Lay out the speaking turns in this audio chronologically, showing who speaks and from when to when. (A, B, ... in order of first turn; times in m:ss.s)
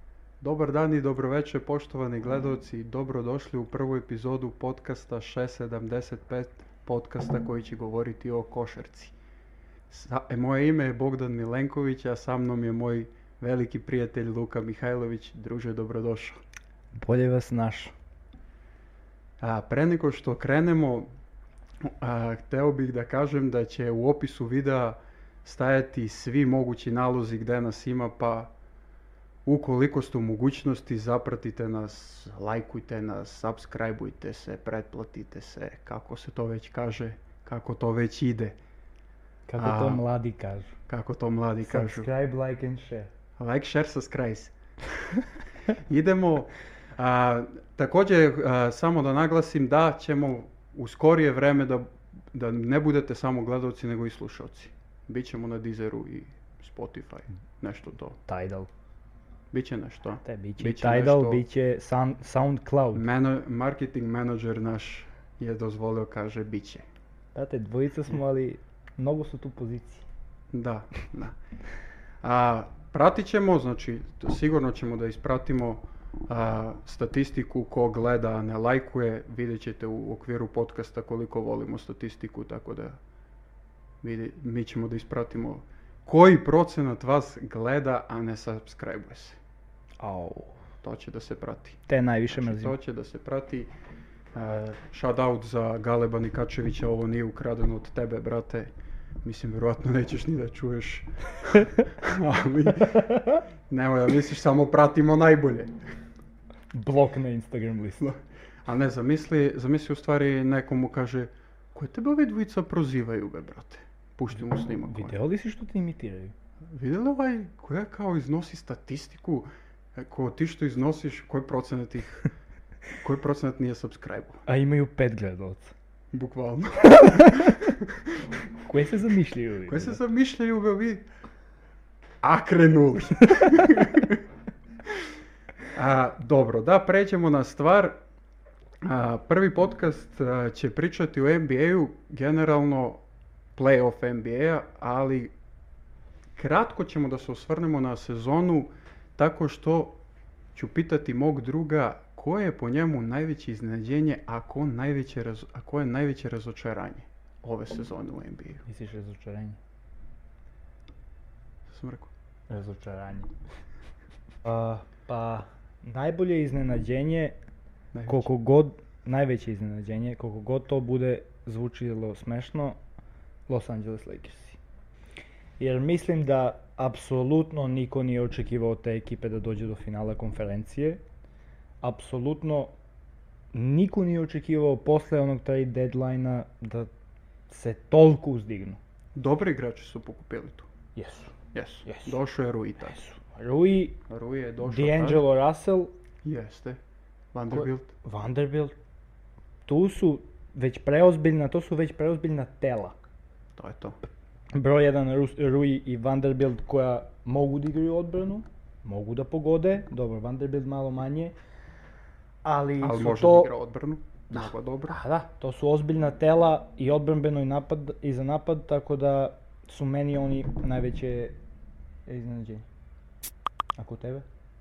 0:00.4-0:09.1 A
0:09.9-0:16.4 A
0:16.9-0:17.9 B
0:19.4-0:21.1 A
0:21.8-0:28.5 A
0:29.4-0:38.6 A
0:39.5-0:40.7 B
0:39.6-0:40.0 A
0:40.9-0:42.1 A
0:41.6-0:43.1 B
0:43.4-0:44.5 A
0:45.9-0:58.2 A
0:58.2-0:58.7 B
0:59.5-1:01.4 A
1:00.2-1:03.0 B
1:02.9-1:06.8 A
1:07.3-1:10.0 B
1:10.5-1:11.4 A
1:12.2-1:23.0 A
1:24.0-1:29.4 A
1:30.0-1:30.6 B
1:30.8-1:33.7 A
1:31.9-1:32.8 B
1:34.3-1:38.7 A
1:39.2-1:43.1 A
1:43.0-1:43.4 B
1:43.7-1:45.8 A
1:46.7-1:48.0 B
1:48.0-1:55.2 A
1:54.8-1:56.3 B
1:56.7-2:02.3 A
2:03.0-2:04.4 A
2:04.5-2:05.7 B
2:06.1-2:08.3 A
2:06.8-2:07.7 B
2:08.6-2:10.0 B
2:09.7-2:11.0 A
2:12.2-2:14.2 A
2:15.7-2:18.0 A
2:18.8-2:23.0 A
2:23.6-2:25.3 A
2:26.4-2:30.0 A
2:30.5-2:38.6 A
2:38.6-2:39.6 B
2:41.7-2:42.1 A
2:42.5-2:43.3 B
2:44.4-2:47.4 B
2:47.9-2:48.3 A
2:48.1-2:52.8 B
2:53.5-2:54.6 B
2:55.6-3:01.0 B
3:01.8-3:02.7 B
3:03.5-3:06.9 B
3:07.5-3:08.8 B
3:09.1-3:10.7 A
3:11.0-3:11.3 B
3:11.5-3:13.0 A
3:11.8-3:12.2 B
3:12.8-3:14.0 B
3:14.1-3:15.2 A
3:14.6-3:15.9 B
3:16.2-3:16.8 A
3:17.3-3:17.9 A
3:17.5-3:18.7 B
3:19.6-3:23.0 B
3:23.6-3:24.0 A
3:24.5-3:31.3 B
3:32.4-3:33.5 B
3:32.8-3:35.0 A
3:34.3-3:41.4 B
3:42.1-3:42.6 B
3:43.8-3:44.2 B